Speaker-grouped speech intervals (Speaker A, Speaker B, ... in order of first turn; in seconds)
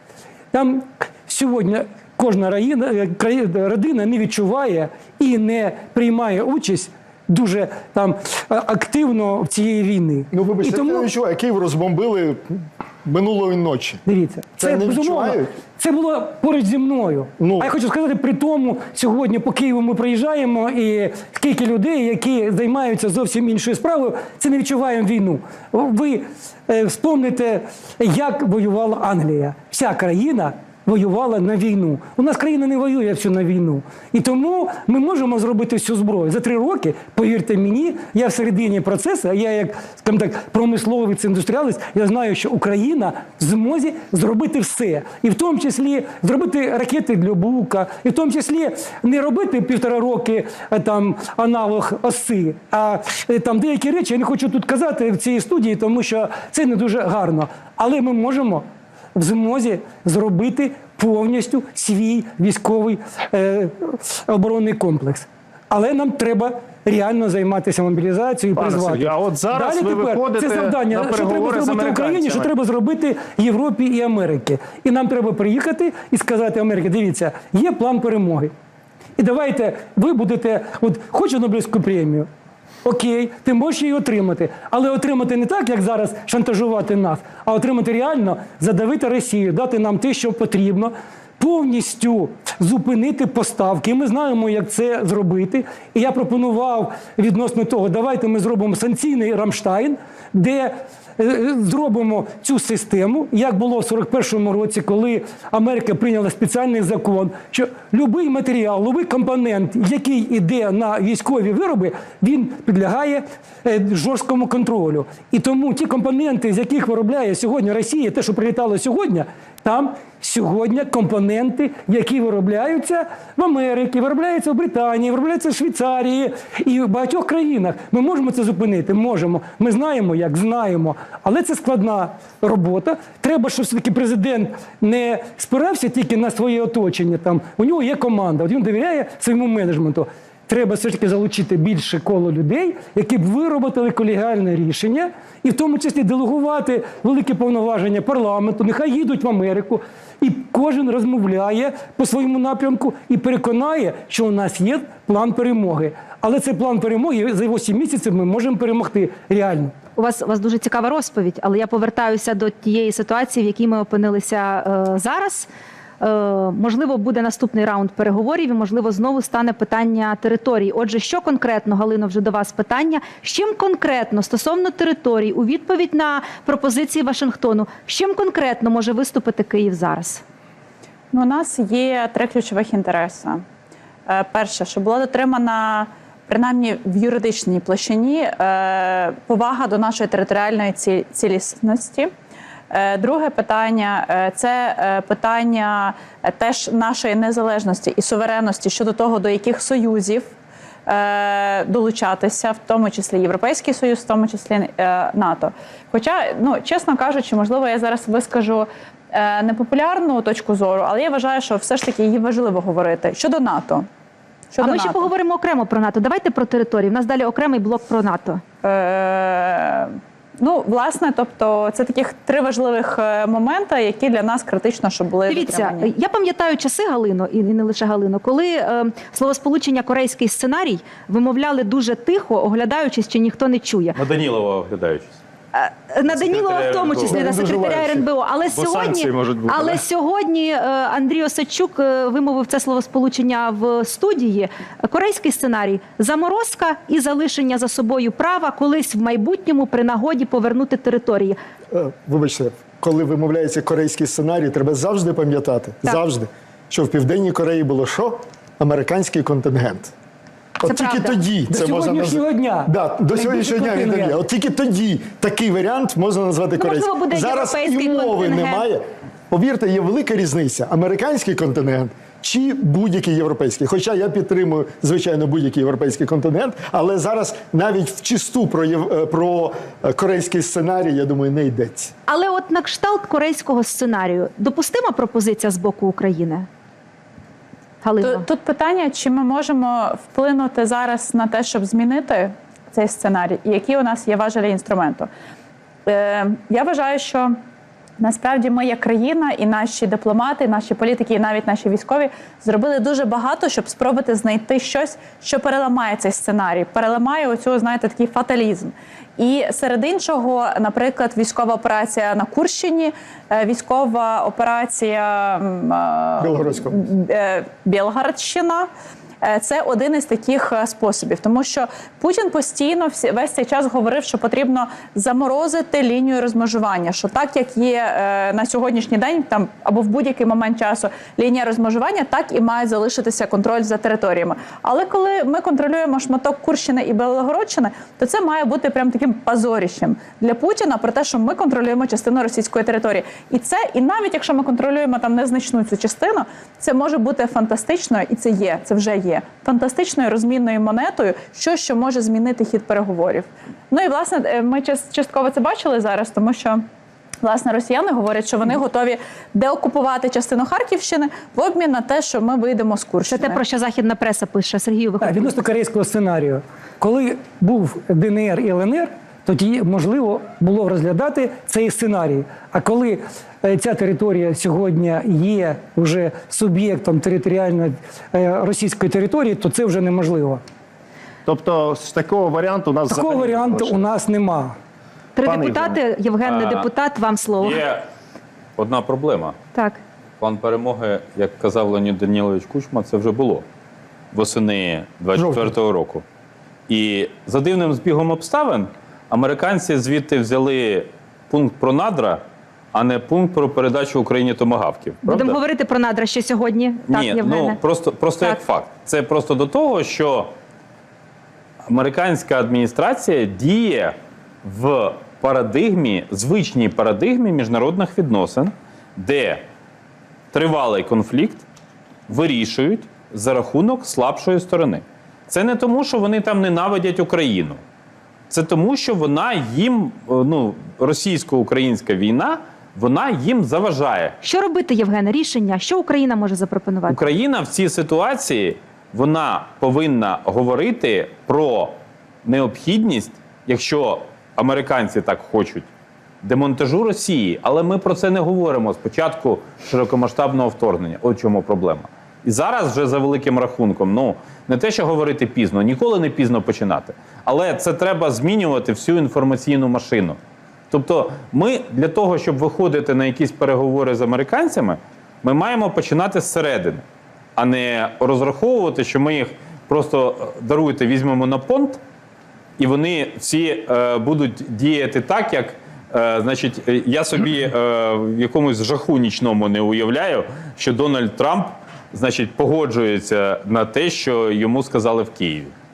Speaker A: 0.5-11.1, 14.1-78.5, 79.2-82.3, 82.8-159.7, 261.5-264.2, 365.0-380.4, 382.9-384.6
Speaker B: 10.3-14.0, 14.6-15.5, 17.4-17.7, 237.0-238.1, 251.7-259.9, 260.6-281.9, 316.2-316.8
Speaker C: 68.5-72.5, 238.5-239.8, 381.2-383.9, 385.2-385.8
Speaker D: 160.0-165.5, 166.0-180.2, 214.6-218.4, 225.3-234.0, 235.5-251.4, 260.6-261.2, 266.6-268.6, 282.1-286.5, 287.8-288.2, 363.1-365.3, 385.1-387.6, 389.5-389.8, 405.0-407.6, 434.2-437.0
Speaker E: 181.1-183.4, 184.1-192.1, 192.7-200.3, 200.9-213.9, 214.5-215.1, 218.6-225.9, 288.0-295.1, 295.9-297.4, 298.0-318.7, 319.2-356.6, 357.2-363.4
Speaker F: 233.9-235.1, 236.1-237.2, 386.2-386.7, 387.4-387.9, 388.6-389.4, 390.2-393.4, 394.1-396.0, 396.7-402.2, 402.7-405.4, 406.9-410.3, 411.7-419.4, 420.3-421.4, 422.1-427.6, 428.3-434.1, 436.9-445.7, 446.2-460.2, 460.7-466.8, 467.4-471.8, 472.6-485.5